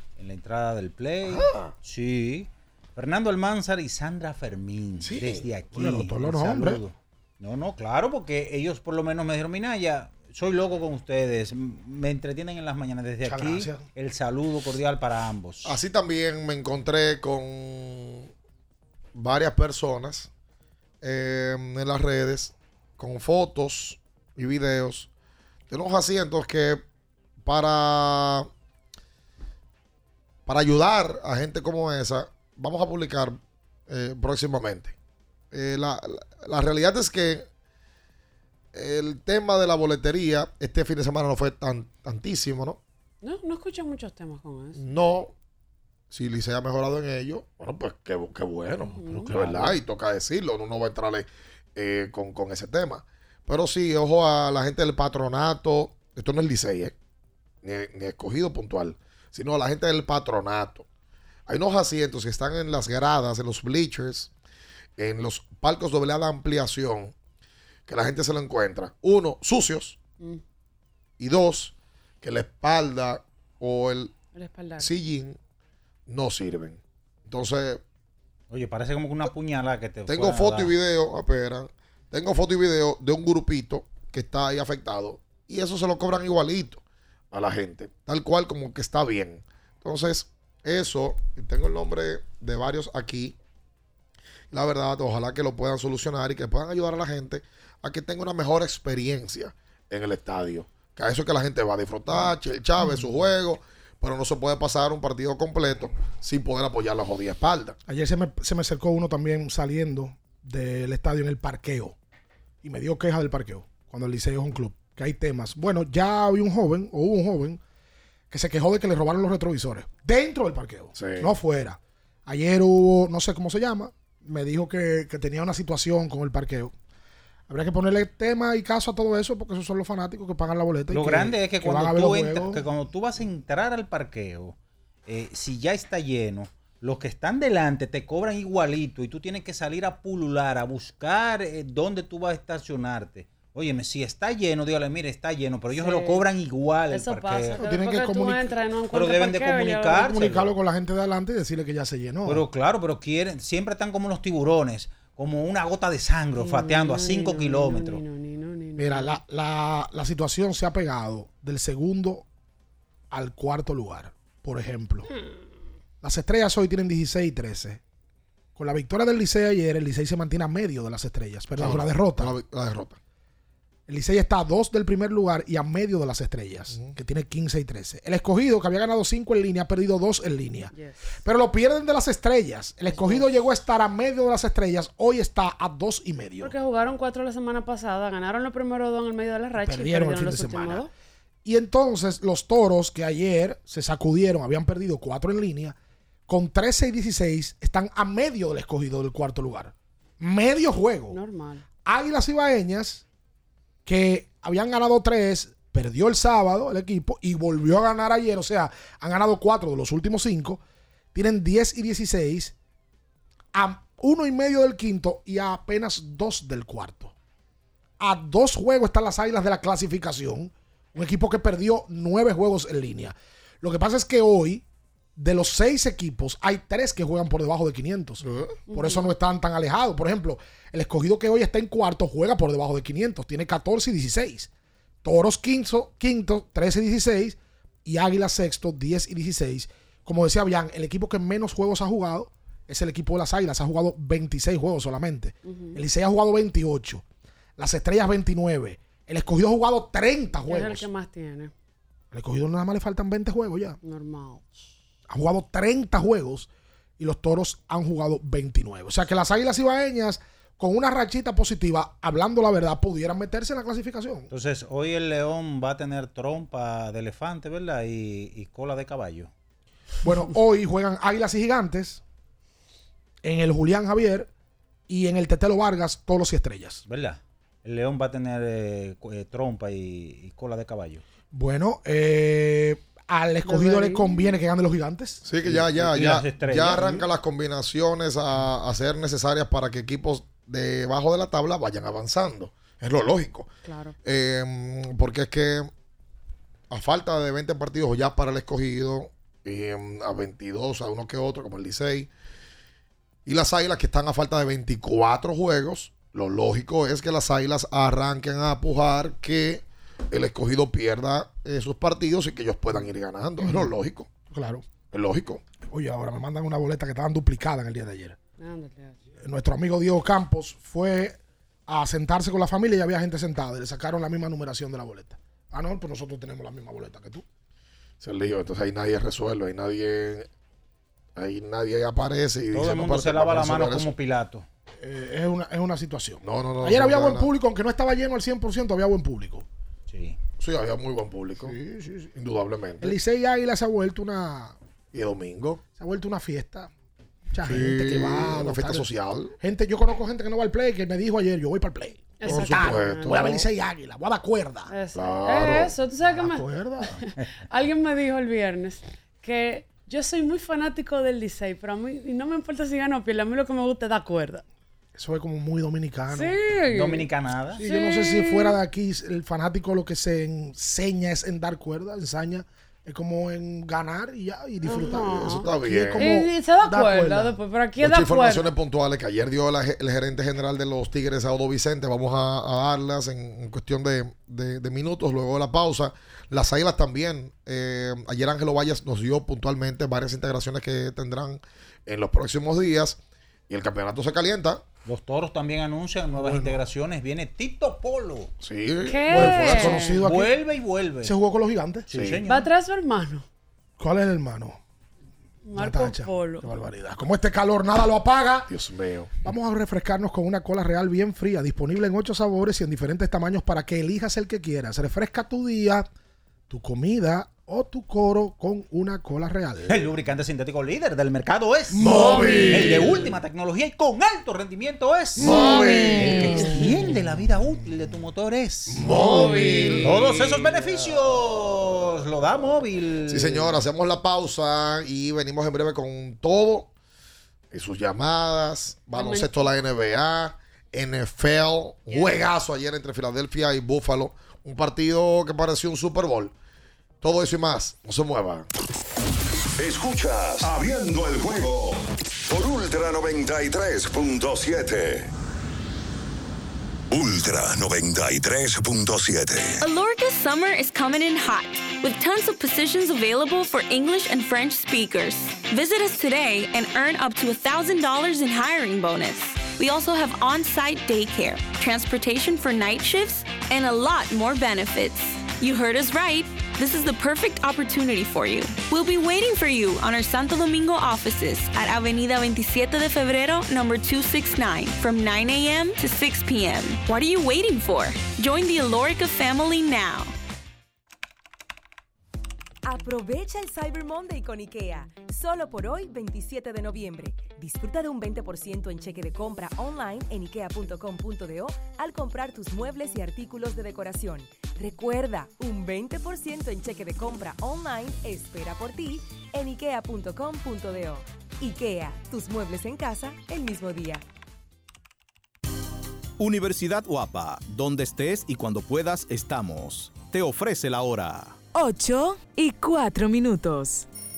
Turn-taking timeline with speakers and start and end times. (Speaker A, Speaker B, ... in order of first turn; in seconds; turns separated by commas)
Speaker A: 0.2-15.8, Speaker B: 1.2-1.7, Speaker B: 5.0-5.5, Speaker C: 5.7-6.8, Speaker C: 13.2-13.8, Speaker B: 15.6-18.3, Speaker B: 19.1-20.3, Speaker B: 21.0-25.1, Speaker B: 25.7-26.8, Speaker B: 27.4-28.5, Speaker B: 30.4-34.9, Speaker B: 35.5-37.5, Speaker B: 38.7-42.8, Speaker D: 43.2-44.8, Speaker B: 44.8-45.3, Speaker B: 46.1-56.9, Speaker D: 49.0-49.3, Speaker C: 49.2-49.7, Speaker B: 57.6-60.9, Speaker B: 61.5-64.3, Speaker B: 65.0-67.1, Speaker B: 67.9-70.0, Speaker B: 71.2-74.1, Speaker D: 74.3-74.9, Speaker B: 74.8-75.4, Speaker B: 76.1-77.8, Speaker A: 78.5-80.7, Speaker B: 80.1-93.3, Speaker B: 94.5-107.8, Speaker C: 107.9-112.0, Speaker C: 112.6-117.6, Speaker C: 118.3-126.7, Speaker B: 120.9-121.3, Speaker C: 127.5-132.6, Speaker A: 130.9-134.6, Speaker A: 135.1-147.6, Speaker D: 145.8-146.2, Speaker D: 146.9-150.1, Speaker C: 147.6-148.5, Speaker A: 148.9-150.5, Speaker C: 149.9-152.4, Speaker A: 152.2-158.0, Speaker D: 156.4-159.2, Speaker C: 158.8-162.2, Speaker C: 163.1-165.1, Speaker C: 166.0-167.8, Speaker C: 168.6-172.3, Speaker B: 171.6-173.0, Speaker C: 173.9-180.7, Speaker B: 176.7-176.9, Speaker D: 180.7-181.0, Speaker C: 181.2-186.5, Speaker D: 182.9-183.3, Speaker D: 186.4-190.9, Speaker C: 189.6-190.8, Speaker C: 191.4-195.8, Speaker C: 196.3-201.2, Speaker D: 201.1-201.6, Speaker C: 201.8-203.0, Speaker C: 203.8-210.6, Speaker C: 211.1-212.5, Speaker C: 213.5-217.1, Speaker C: 218.0-224.6, Speaker C: 225.2-234.5, Speaker B: 228.2-228.6, Speaker D: 228.7-229.1, Speaker C: 235.0-247.0, Speaker D: 245.4-245.8, Speaker C: 247.6-250.9, Speaker D: 250.5-251.5, Speaker C: 252.1-253.8, Speaker D: 253.8-254.4, Speaker C: 255.1-264.3, Speaker A: 264.3-269.3, Speaker C: 270.0-272.0, Speaker C: 273.2-274.3, Speaker C: 274.9-276.8, Speaker A: 276.9-281.0, Speaker C: 281.3-285.2, Speaker D: 283.4-284.4, Speaker B: 285.2-293.5, Speaker A: 285.4-287.1, Speaker D: 293.6-293.9, Speaker B: 294.0-295.7, Speaker B: 296.7-302.1, Speaker B: 303.2-314.1, Speaker C: 313.4-313.7, Speaker C: 314.3-314.6, Speaker B: 314.9-315.4, Speaker C: 315.6-318.2, Speaker D: 318.4-319.0, Speaker C: 319.2-327.2, Speaker B: 328.0-330.3, Speaker B: 331.1-333.9, Speaker A: 332.5-334.5, Speaker C: 334.8-339.4, Speaker B: 336.2-337.3, Speaker A: 339.9-340.2, Speaker B: 340.4-341.6, Speaker C: 341.4-342.1, Speaker B: 342.1-343.0, Speaker C: 342.8-344.6, Speaker B: 344.9-345.6, Speaker C: 345.8-346.7, Speaker C: 347.3-348.9, Speaker B: 347.4-349.3, Speaker C: 349.4-354.7, Speaker D: 352.2-353.4, Speaker B: 352.2-353.5, Speaker D: 354.7-356.4, Speaker B: 354.9-355.7, Speaker C: 356.0-356.9, Speaker D: 356.9-364.4, Speaker C: 364.9-366.4, Speaker D: 366.1-367.1, Speaker A: 366.7-367.6, Speaker C: 367.6-377.4, Speaker D: 367.6-368.6, Speaker D: 374.6-378.5, Speaker B: 374.7-376.1, Speaker B: 377.8-394.6, Speaker A: 394.8-398.3, Speaker C: 396.1-396.6, Speaker B: 398.4-399.6, Speaker D: 398.9-400.0, Speaker C: 399.1-400.4, Speaker A: 399.3-401.1, Speaker C: 401.0-401.9, Speaker A: 401.9-402.5, Speaker B: 401.9-402.2, Speaker D: 402.2-403.2, Speaker C: 403.8-404.6, Speaker D: 405.4-406.5, Speaker C: 405.6-408.5, Speaker B: 408.5-409.1, Speaker C: 409.2-415.9, Speaker C: 416.5-419.9, Speaker A: 419.7-433.6, Speaker C: 421.7-422.9, Speaker B: 421.8-422.9, Speaker C: 425.2-427.0, Speaker B: 425.2-426.6, Speaker D: 425.4-426.1, Speaker B: 428.7-429.9, Speaker C: 428.8-429.4, Speaker D: 429.0-429.9, Speaker B: 433.1-436.7, Speaker B: 437.5-446.3, Speaker D: 438.9-439.5, Speaker D: 441.9-442.2, Speaker B: 447.0-448.5, Speaker E: 449.6-455.1, Speaker E: 456.9-459.6, Speaker F: 459.6-490.1, Speaker G: 492.6-514.0, Speaker H: 516.2-521.2, Speaker I: 521.5-523.9